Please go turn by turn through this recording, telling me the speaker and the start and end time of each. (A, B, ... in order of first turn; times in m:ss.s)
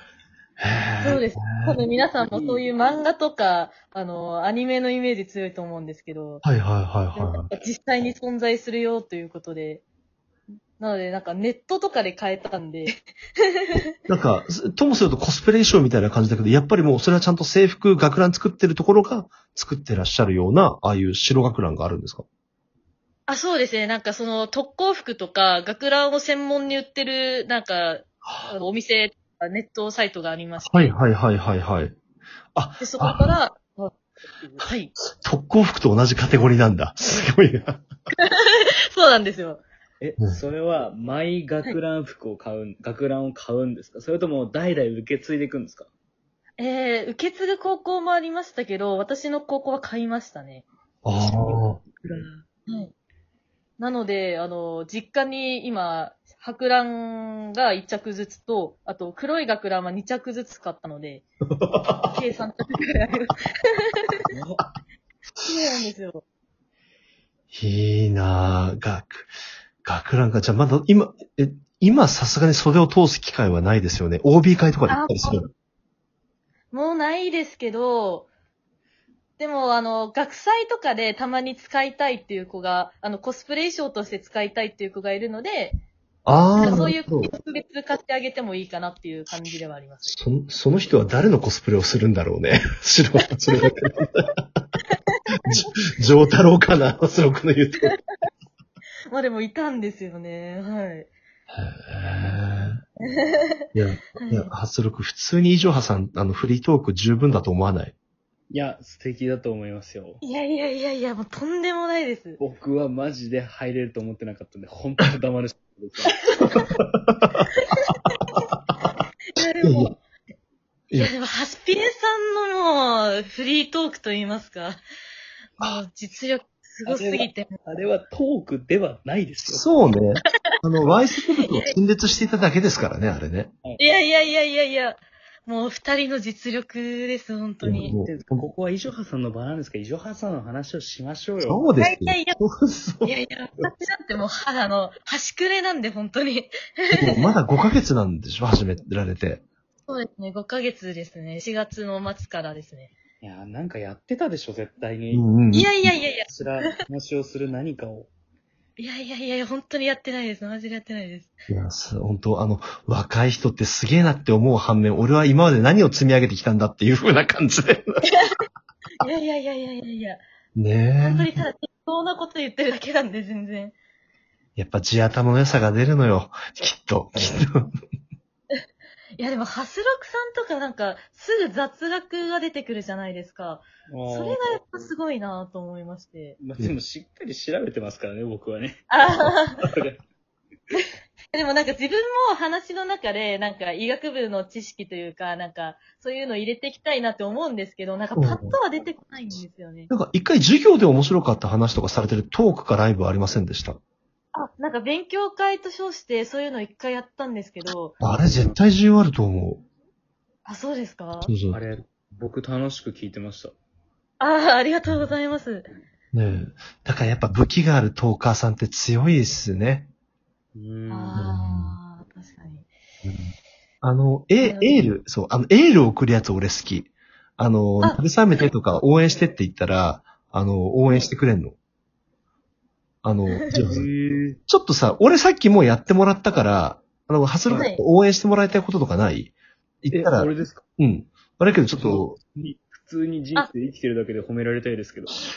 0:00.6-0:01.8 A
0:01.0-0:06.4 B
0:02.4-0:02.6 C
0:06.4-0:07.5 A
0:07.1-0:09.8 B
0:10.8-0:13.9 B
0:14.1-0:22.2 A
0:23.3-0:30.9 B
0:30.6-0:31.9 A
0:32.5-0:33.4 A
0:32.8-0:34.0 B
0:34.6-0:34.9 B
0:35.1-0:37.8 A
0:38.2-0:39.6 B
0:40.0-0:45.9 C
0:46.6-0:50.6 B
0:51.0-0:51.8 A
0:51.3-0:52.3 C
0:52.6-0:52.9 B
0:53.8-1:01.2 B
1:01.5-1:02.1 A
1:02.0-1:04.3 B
1:04.3-1:04.6 C
1:05.4-1:05.8 A
1:05.4-1:06.2 B
1:07.5-1:09.3 A
1:09.8-1:15.5 A
1:14.9-1:15.4 B
1:16.7-1:18.3 B
1:19.4-1:25.8 B
1:26.2-1:27.3 A
1:26.5-1:30.2 B
1:30.0-1:34.3 A
1:34.9-1:35.2 B
1:35.4-1:37.9 A
1:39.1-1:41.1 B
1:41.5-1:42.8 A
1:43.0-1:43.6 B
1:43.7-1:47.9 A
1:44.2-1:44.5 B
1:48.5-1:50.2 C
1:50.2-1:52.4 B
1:52.4-1:56.2 C
1:56.4-1:57.5 A
1:59.3-1:59.9 B
1:59.6-1:59.9 A
2:01.0-2:04.8 B
2:05.6-2:07.5 B
2:06.8-2:09.6 C
2:09.4-2:13.5 A
2:11.4-2:11.7 B
2:13.8-2:17.9 B
2:17.6-2:18.1 A
2:17.9-2:21.6 C
2:21.4-2:23.7 A
2:21.8-2:22.4 B
2:23.0-2:27.3 B
2:26.9-2:29.4 A
2:29.9-2:32.9 B
2:33.2-2:35.3 C
2:35.1-2:35.9 A
2:35.5-2:36.7 B
2:36.2-2:38.1 C
2:38.8-2:41.3 B
2:41.5-2:48.1 A
2:49.0-2:50.2 B
2:50.5-2:51.3 A
2:51.0-2:53.7 B
2:54.6-2:57.7 A
2:59.2-3:06.4 B
3:03.9-3:04.4 C
3:06.4-3:08.8 C
3:08.9-3:09.6 B
3:09.6-3:10.0 C
3:10.7-3:19.9 B
3:18.2-3:18.6 A
3:19.9-3:23.8 A
3:24.3-3:28.0 B
3:28.0-3:29.6 A
3:30.4-3:31.3 B
3:31.2-3:31.6 A
3:31.5-3:33.5 C
3:34.2-3:35.7 B
3:34.9-3:35.1 A
3:36.1-3:39.9 A
3:40.5-3:41.3 C
3:40.9-3:42.6 B
3:41.1-3:41.8 A
3:43.0-3:43.3 A
3:43.8-3:51.6 A
3:44.4-3:44.8 B
3:53.0-3:53.8 A
3:53.7-3:54.4 C
3:54.5-4:02.2 A
3:57.5-3:57.8 B
3:59.9-4:00.6 C
4:01.8-4:05.1 C